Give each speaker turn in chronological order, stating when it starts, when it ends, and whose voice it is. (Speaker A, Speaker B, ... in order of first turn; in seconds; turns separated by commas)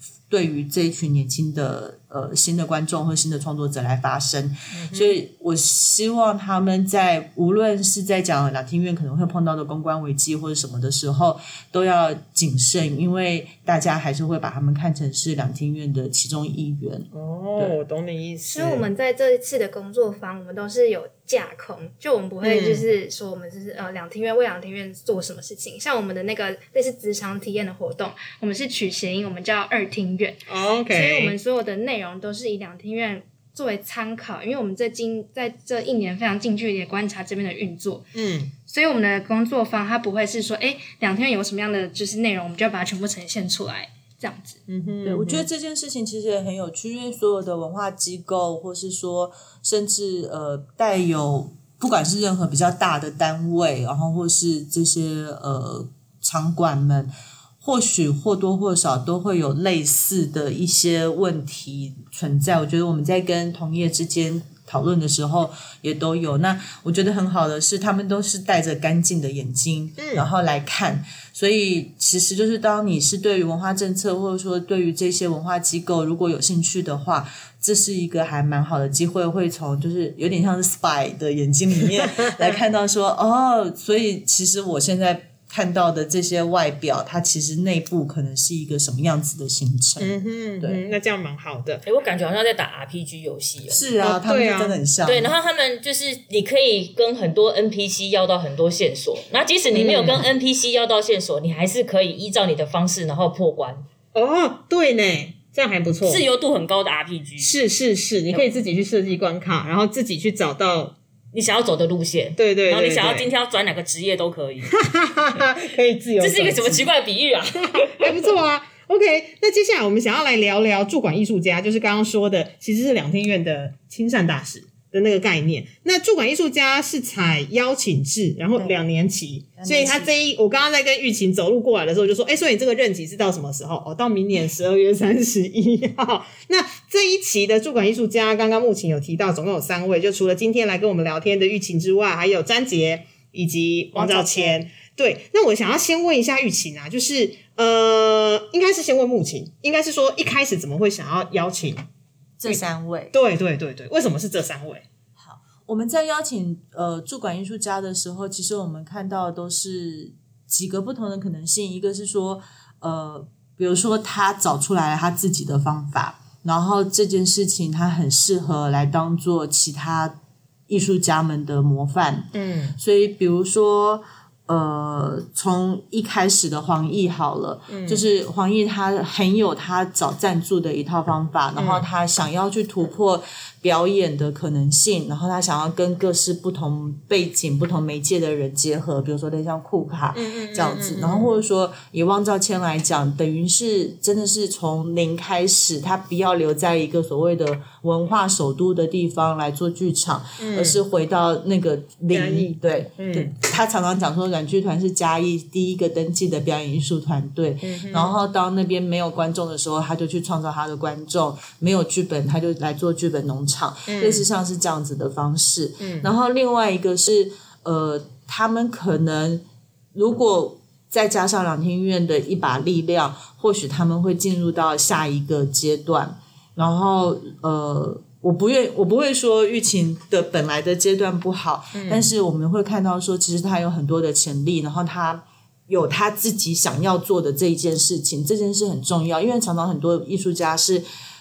Speaker A: 0.3-17.8, Speaker B: 4.7-5.1, Speaker B: 17.1-18.8, Speaker C: 18.5-38.1, Speaker B: 22.4-22.8, Speaker B: 30.5-31.3, Speaker B: 38.1-38.5, Speaker C: 38.7-44.6, Speaker B: 44.7-45.5, Speaker A: 45.0-57.1, Speaker A: 57.6-90.8, Speaker B: 70.0-70.3, Speaker B: 90.0-91.8, Speaker D: 91.8-93.8, Speaker A: 93.7-95.3, Speaker B: 94.0-94.8, Speaker D: 95.0-103.8, Speaker B: 99.7-100.3, Speaker B: 104.1-106.2, Speaker D: 106.0-107.6, Speaker B: 107.4-110.9, Speaker D: 111.3-114.8, Speaker B: 112.4-113.3, Speaker B: 114.7-116.9, Speaker D: 116.2-118.2, Speaker B: 117.7-151.9, Speaker A: 129.6-130.1, Speaker A: 143.9-144.6, Speaker A: 152.4-153.1, Speaker B: 152.5-154.8, Speaker A: 155.2-170.1, Speaker A: 170.7-240.8, Speaker B: 172.3-172.8, Speaker B: 177.7-178.0, Speaker B: 181.6-181.8, Speaker B: 190.1-191.3, Speaker B: 200.4-200.8, Speaker B: 202.1-203.3, Speaker B: 207.6-208.2, Speaker B: 213.9-214.2, Speaker B: 215.8-216.1, Speaker B: 231.7-232.1